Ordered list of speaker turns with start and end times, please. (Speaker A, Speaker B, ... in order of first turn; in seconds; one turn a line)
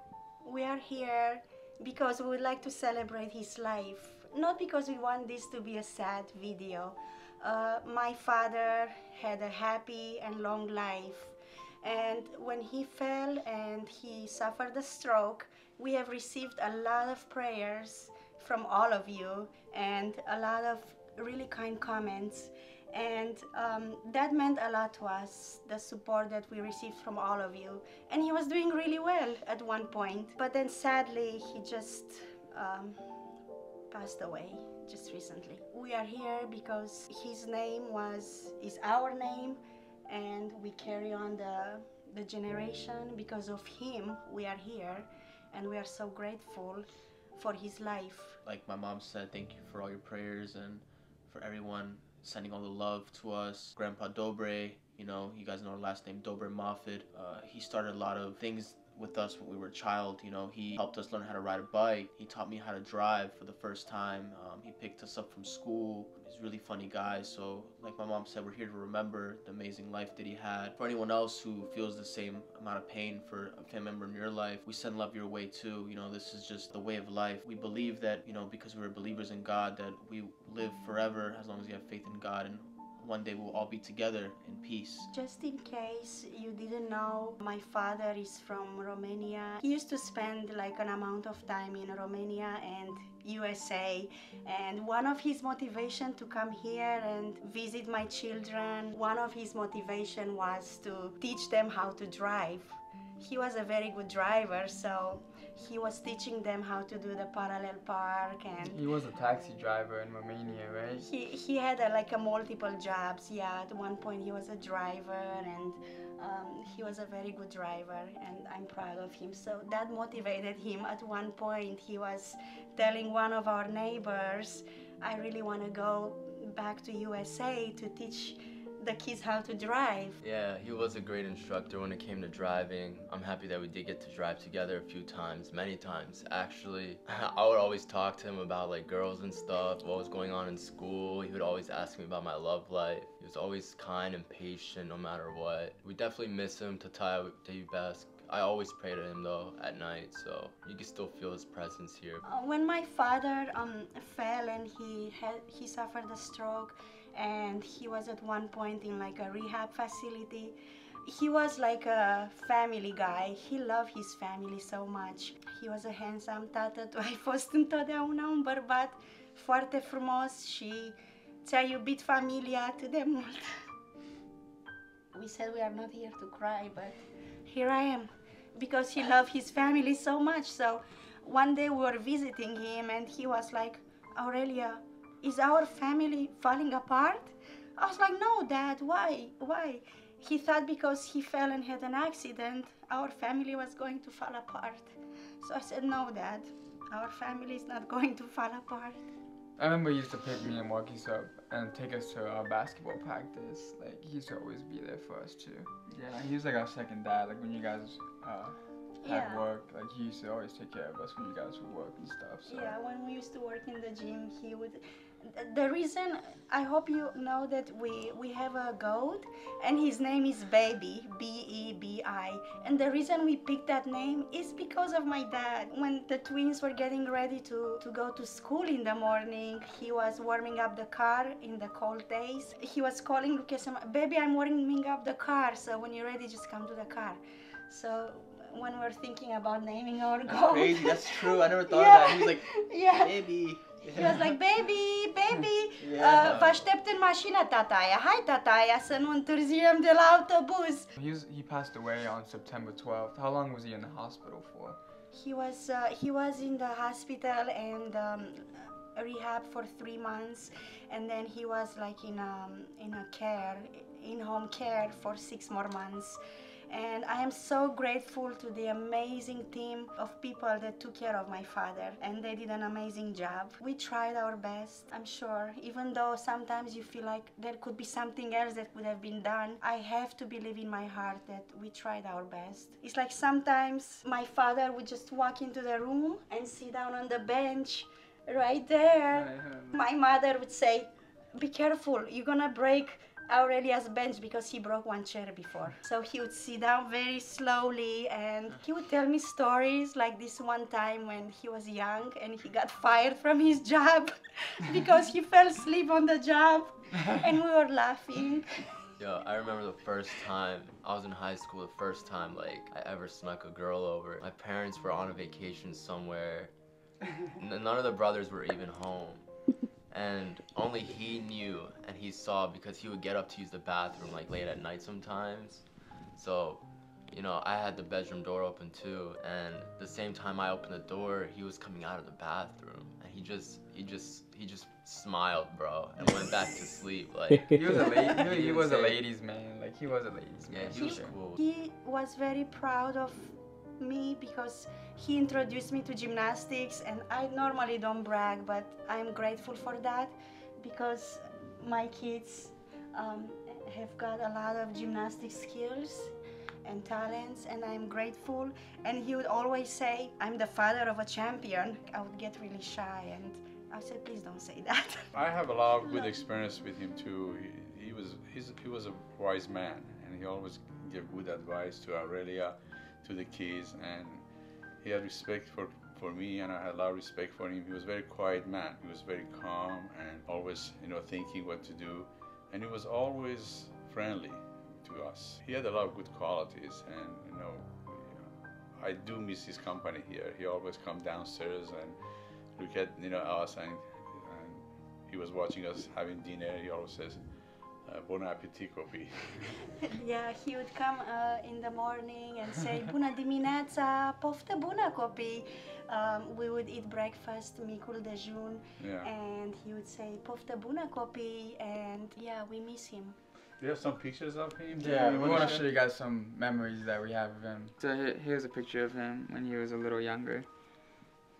Speaker A: 0.4-33.0
Speaker A: 33.9-48.4
Speaker B: 48.4-85.1
Speaker A: 85.1-108.8
Speaker C: 108.6-111.1
Speaker A: 111.0-130.2
Speaker D: 130.2-152.2
Speaker A: 152.2-173.4
Speaker A: 175.1-199.0
Speaker C: 199.6-212.7
Speaker A: 209.0-209.5
Speaker A: 212.4-243.3
Speaker B: 240.2-244.3
Speaker A: 243.9-250.9
Speaker B: 245.8-246.6
Speaker C: 250.9-254.8
Speaker A: 255.1-308.6
Speaker C: 289.1-289.8
Speaker D: 309.0-316.5
Speaker D: 317.3-319.2
Speaker D: 319.9-339.0
Speaker C: 337.5-341.1
Speaker D: 340.5-341.4
Speaker A: 340.7-356.1
Speaker A: 356.6-365.1
Speaker E: 365.1-374.3
Speaker E: 374.8-392.0
Speaker E: 392.5-399.6
Speaker A: 399.8-413.1
Speaker E: 408.8-409.1
Speaker E: 413.6-415.7
Speaker C: 414.7-420.5
Speaker B: 415.2-415.4